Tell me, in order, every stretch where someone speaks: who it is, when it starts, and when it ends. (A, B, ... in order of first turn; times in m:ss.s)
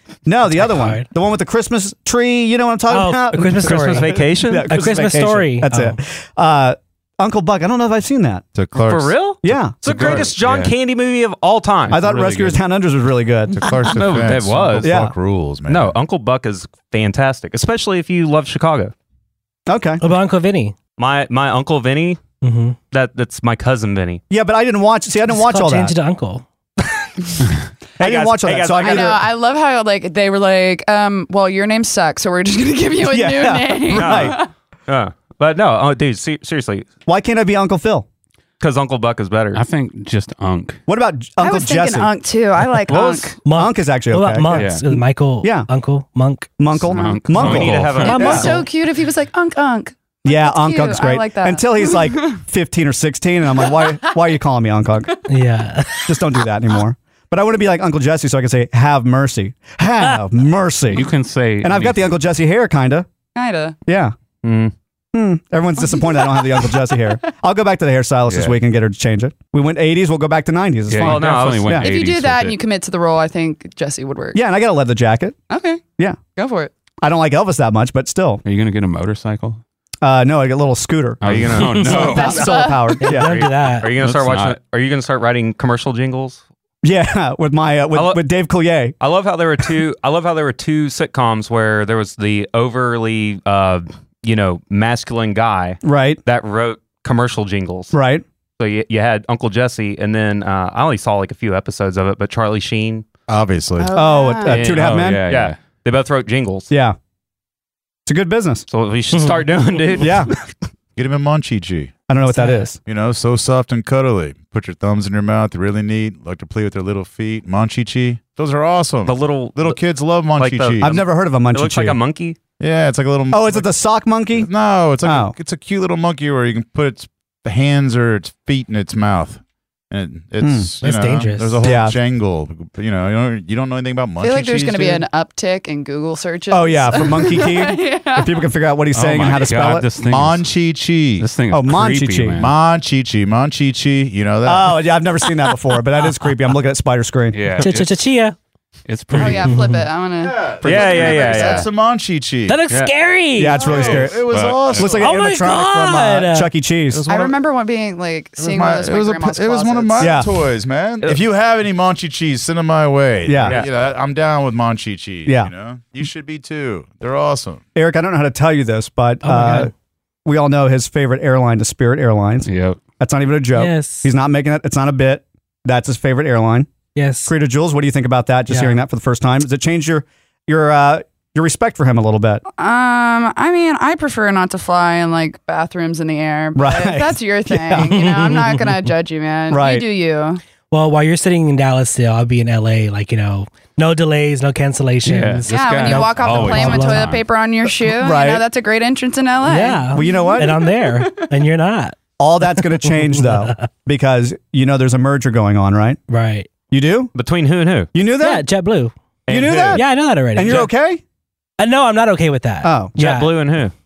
0:00.2-0:08.4 A
0:00.6-0:01.1 B
0:02.9-0:06.0 B
0:03.6-0:04.7 C
0:08.5-0:09.3 D
0:08.8-0:12.0 C
0:09.4-0:09.7 A
0:09.8-0:10.7 E
0:09.9-0:10.2 D
0:11.9-0:13.6 A
0:11.9-0:12.6 E
0:13.6-0:16.0 D
0:13.9-0:15.0 C
0:14.3-0:14.7 E
0:14.8-0:15.1 A
0:15.7-0:18.9 C
0:19.7-0:20.0 A
0:20.0-0:20.7 B
0:21.0-0:22.2 C
0:22.4-0:22.8 B
0:22.9-0:24.2 C
0:24.3-0:25.9 A
0:25.3-0:26.4 B
0:28.0-0:29.2 C
0:28.0-0:29.2 A
0:28.8-0:34.5 F
0:33.0-0:34.4 A
0:33.9-0:36.9 C
0:37.1-0:38.0 A
0:38.6-0:39.6 C
0:39.5-0:40.8 E
0:40.9-0:42.1 A
0:41.4-0:43.3 F
0:42.9-0:44.7 A
0:43.4-0:46.5 B
0:44.5-0:44.9 E
0:45.4-0:45.7 A
0:46.6-0:48.5 A
0:46.7-0:48.3 E
0:47.3-0:48.5 C
0:48.0-0:48.6 B
0:48.1-0:52.4 F
0:50.2-0:55.1 A
0:55.3-0:56.1 B
0:56.0-1:01.1 A
1:00.9-1:02.2 E
1:01.6-1:03.1 A
1:03.3-1:03.8 F
1:03.9-1:04.1 A
1:04.4-1:04.7 C
1:05.1-1:11.9 A
1:05.9-1:06.5 F
1:08.3-1:08.5 E
1:10.9-1:12.6 E
1:11.0-1:11.8 C
1:11.8-1:14.4 F
1:14.3-1:15.4 A
1:15.5-1:15.8 F
1:16.4-1:16.7 F
1:17.0-1:18.4 A
1:18.4-1:19.6 E
1:20.0-1:23.3 A
1:21.2-1:22.5 E
1:21.2-1:22.2 C
1:21.9-1:23.0 F
1:23.0-1:23.9 B
1:23.1-1:26.4 C
1:24.0-1:24.6 E
1:26.8-1:28.9 A
1:27.9-1:28.2 C
1:29.0-1:38.0 C
1:35.8-1:36.2 A
1:37.9-1:38.2 A
1:38.6-1:43.0 C
1:43.3-1:44.0 D
1:43.8-1:44.6 F
1:43.9-1:45.2 A
1:44.4-1:46.7 C
1:44.6-1:45.6 E
1:46.7-1:47.0 A
1:48.0-1:48.6 A
1:48.7-1:50.5 C
1:50.0-1:50.3 A
1:51.0-1:52.0 D
1:52.1-1:52.8 A
1:52.2-1:52.7 B
1:52.8-2:01.0 D
1:59.1-1:59.8 C
2:00.4-2:02.4 C
2:00.8-2:02.0 A
2:02.6-2:03.7 D
2:03.3-2:04.5 A
2:04.3-2:15.0 D
2:05.0-2:05.4 A
2:10.4-2:10.7 A
2:10.8-2:11.6 B
2:11.6-2:12.0 A
2:14.2-2:18.4 F
2:16.5-2:19.9 A
2:18.9-2:20.5 E
2:20.0-2:21.3 D
2:21.2-2:22.5 E
2:21.5-2:22.4 A
2:22.3-2:24.8 D
2:24.4-2:27.4 A
2:27.3-2:28.0 E
2:27.6-2:28.3 B
2:28.8-2:29.5 E
2:29.1-2:31.6 F
2:29.2-2:29.8 B
2:30.2-2:32.6 D
2:30.6-2:31.7 C
2:32.5-2:33.7 B
2:33.4-2:37.0 A
2:33.6-2:35.2 D
2:34.2-2:35.0 E
2:34.9-2:36.5 B
2:36.9-2:37.3 D
2:37.1-2:40.2 F
2:38.4-2:47.6 D
2:40.0-2:40.3 A
2:43.2-2:43.6 A
2:43.4-2:43.7 C
2:45.2-2:45.5 A
2:47.7-2:49.7 A
2:49.2-2:49.7 B
2:50.2-2:52.5 A
2:52.4-2:52.8 E
2:53.0-2:56.7 A
2:53.6-2:54.1 B
2:56.9-2:57.3 B
2:57.2-3:02.4 A
2:58.5-2:58.8 B
3:02.6-3:10.4 F
3:06.5-3:08.1 A
3:07.9-3:08.5 B
3:09.5-3:09.8 A
3:10.7-3:17.1 B
3:15.0-3:17.2 E
3:15.5-3:21.2 F
3:17.8-3:18.4 A
3:19.4-3:22.0 B
3:19.9-3:20.6 A
3:22.2-3:26.0 A
3:22.6-3:23.7 B
3:26.1-3:26.5 B
3:26.7-3:27.1 A
3:27.1-3:27.9 C
3:27.9-3:28.5 A
3:28.2-3:28.9 B
3:29.3-3:29.8 C
3:29.3-3:31.0 A
3:29.7-3:30.7 B
3:31.6-3:33.3 B
3:32.6-3:32.9 A
3:33.0-3:33.7 C